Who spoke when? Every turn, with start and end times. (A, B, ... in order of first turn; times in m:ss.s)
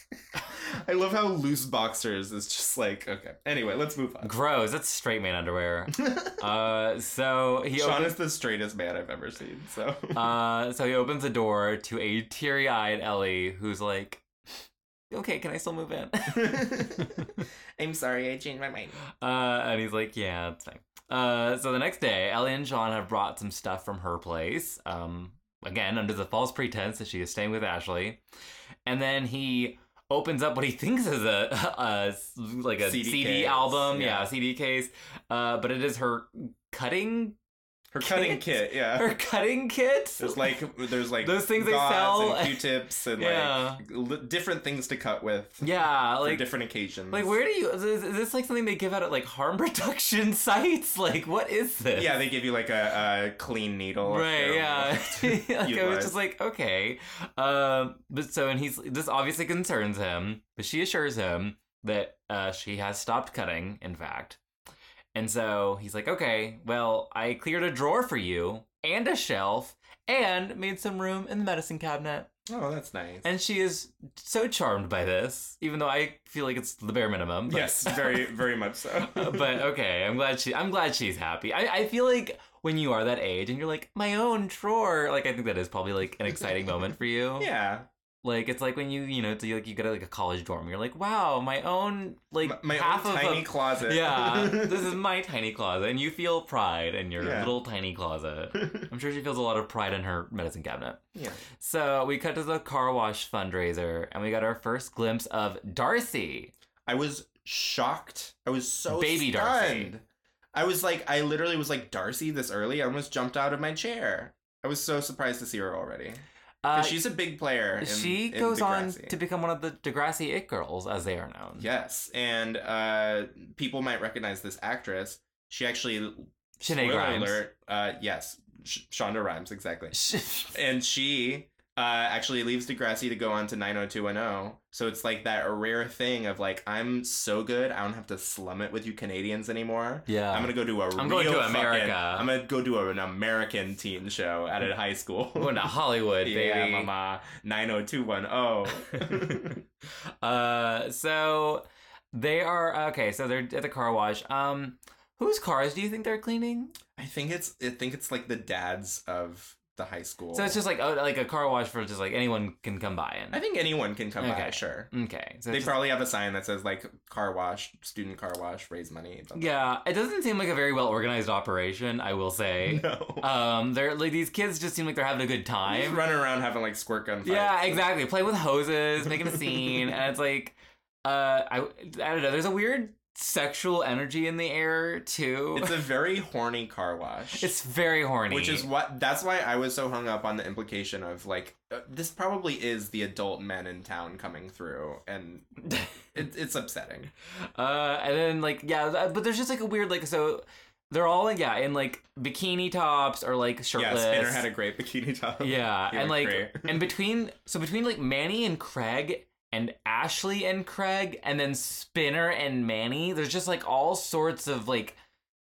0:00.4-0:04.3 A
0:04.2-0:08.2 B
0:06.0-0:06.3 A
0:07.8-0:10.2 A
0:10.1-0:14.2 B
0:15.1-0:17.4 B
0:16.3-0:19.0 A
0:19.2-0:28.2 B
0:28.8-0:37.4 B
0:32.8-0:34.3 A
0:37.9-0:39.1 A
0:38.0-0:40.6 B
0:40.2-0:45.6 A
0:41.2-0:43.8 B
0:45.6-0:46.5 B
0:46.2-0:47.3 A
0:47.1-0:52.1 B
0:51.9-0:56.1 A
0:54.0-1:04.4 B
1:05.1-1:12.3 B
1:12.5-1:13.3 A
1:13.2-1:18.3 B
1:17.5-1:19.6 A
1:19.0-1:27.5 B
1:27.4-1:27.9 A
1:28.2-1:41.0 B
1:32.4-1:35.0 A
1:37.2-1:37.5 A
1:38.6-1:38.8 A
1:41.1-1:41.4 A
1:41.6-1:46.5 B
1:46.8-1:56.2 A
1:48.9-1:49.9 B
1:56.6-1:57.1 B
1:56.7-1:59.2 A
1:57.8-2:01.7 B
2:01.6-2:09.9 A
2:06.6-2:07.4 B
2:09.9-2:10.5 B
2:10.5-2:25.7 A
2:20.1-2:22.3 B
2:25.4-2:26.9 B
2:26.2-2:29.6 A
2:28.9-2:29.4 B
2:30.2-2:36.7 B
2:37.0-2:40.6 A
2:40.3-2:43.4 B
2:43.3-2:44.9 A
2:44.2-2:45.8 B
2:45.5-2:49.5 A
2:49.3-2:56.0 B
2:52.6-2:53.3 A
2:55.7-2:57.8 A
2:57.2-3:05.8 B
2:59.0-2:59.8 A
3:05.5-3:07.5 A
3:07.4-3:08.7 B
3:08.3-3:15.6 A
3:16.1-3:17.1 A
3:17.5-3:24.5 B
3:23.8-3:26.8 A
3:25.4-3:35.0 B